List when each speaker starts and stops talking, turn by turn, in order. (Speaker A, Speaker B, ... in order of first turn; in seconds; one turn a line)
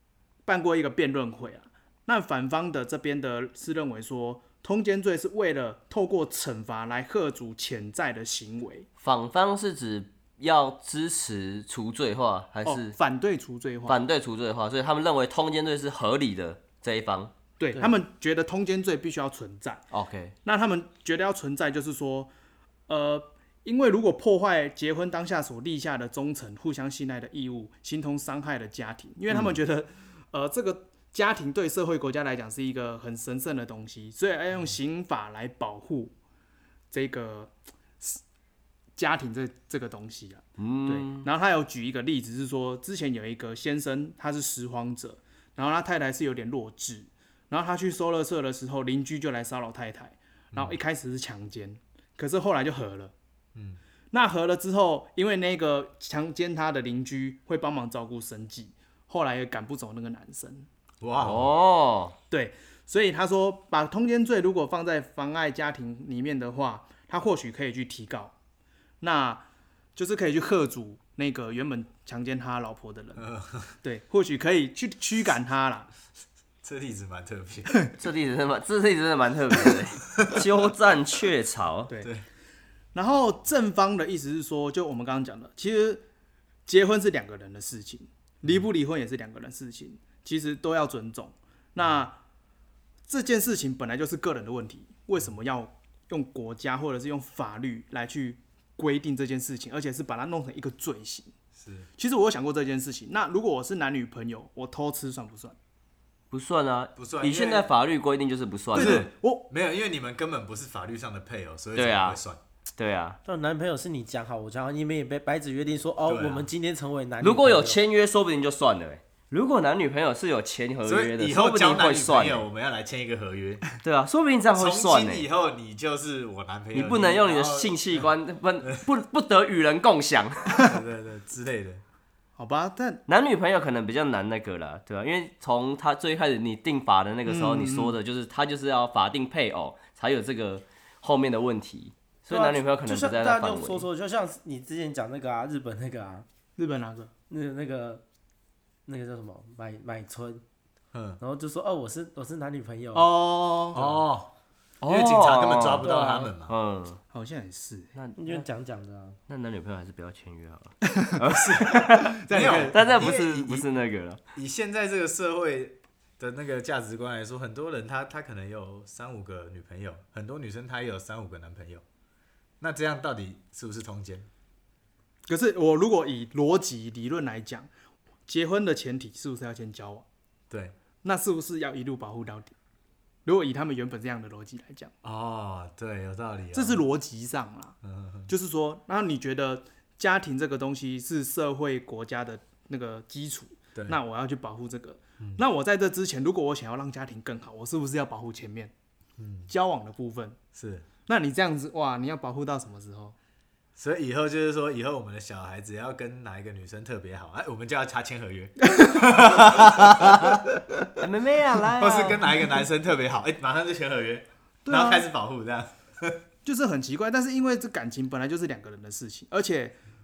Speaker A: 0.5-8.9
Speaker B: 9.0-13.0
Speaker A: 12.7-14.0
Speaker B: 13.9-17.3
Speaker A: 17.6-19.8
Speaker B: 19.9-20.3
Speaker A: 20.4-22.3
Speaker A: 22.9-36.1
Speaker A: 36.9-38.2
Speaker A: 39.0-53.1
Speaker B: 40.6-41.3
Speaker A: 54.1-60.7
Speaker C: 61.0-61.5
Speaker B: 61.2-62.1
Speaker A: 62.3-68.3
Speaker A: 69.0-73.2
Speaker C: 73.2-73.7
Speaker A: 73.8-75.9
Speaker C: 76.6-77.8
Speaker B: 78.0-81.9
Speaker A: 82.9-86.0
Speaker A: 86.7-92.2
Speaker A: 93.1-101.3
Speaker C: 101.6-101.9
Speaker A: 102.0-105.6
Speaker B: 106.3-109.0
Speaker C: 107.0-107.7
Speaker A: 108.7-109.5
Speaker C: 108.7-112.4
Speaker B: 111.8-112.2
Speaker B: 112.8-113.2
Speaker D: 113.2-117.8
Speaker C: 116.1-116.5
Speaker B: 117.2-122.5
Speaker C: 120.9-123.6
Speaker B: 123.8-125.3
Speaker C: 124.5-128.1
Speaker B: 126.8-130.7
Speaker C: 130.6-131.8
Speaker A: 132.4-133.0
Speaker B: 133.1-143.9
Speaker A: 137.3-137.9
Speaker D: 142.8-146.3
Speaker A: 146.6-147.1
Speaker D: 147.3-148.0
Speaker D: 148.9-150.4
Speaker C: 150.9-151.2
Speaker D: 151.2-153.1
Speaker A: 152.9-154.0
Speaker C: 153.7-154.3
Speaker B: 154.8-157.0
Speaker C: 154.8-156.5
Speaker D: 155.8-156.3
Speaker A: 157.1-157.9
Speaker B: 157.9-158.4
Speaker D: 158.2-159.2
Speaker B: 159.3-162.2
Speaker A: 161.0-162.8
Speaker C: 162.3-163.7
Speaker B: 162.7-164.2
Speaker C: 164.3-171.8
Speaker C: 172.6-174.3
Speaker A: 175.3-177.7
Speaker A: 178.3-180.1
Speaker C: 180.5-180.8
Speaker A: 181.0-182.5
Speaker A: 183.2-184.9
Speaker C: 185.0-186.8
Speaker A: 186.5-187.8
Speaker C: 187.8-188.3
Speaker A: 188.3-198.7
Speaker C: 199.2-199.5
Speaker A: 199.5-200.4
Speaker C: 200.5-200.9
Speaker A: 201.1-203.2
Speaker C: 203.8-210.4
Speaker A: 208.7-209.2
Speaker B: 211.0-212.4
Speaker C: 211.8-216.2
Speaker A: 214.7-215.1
Speaker A: 216.4-219.8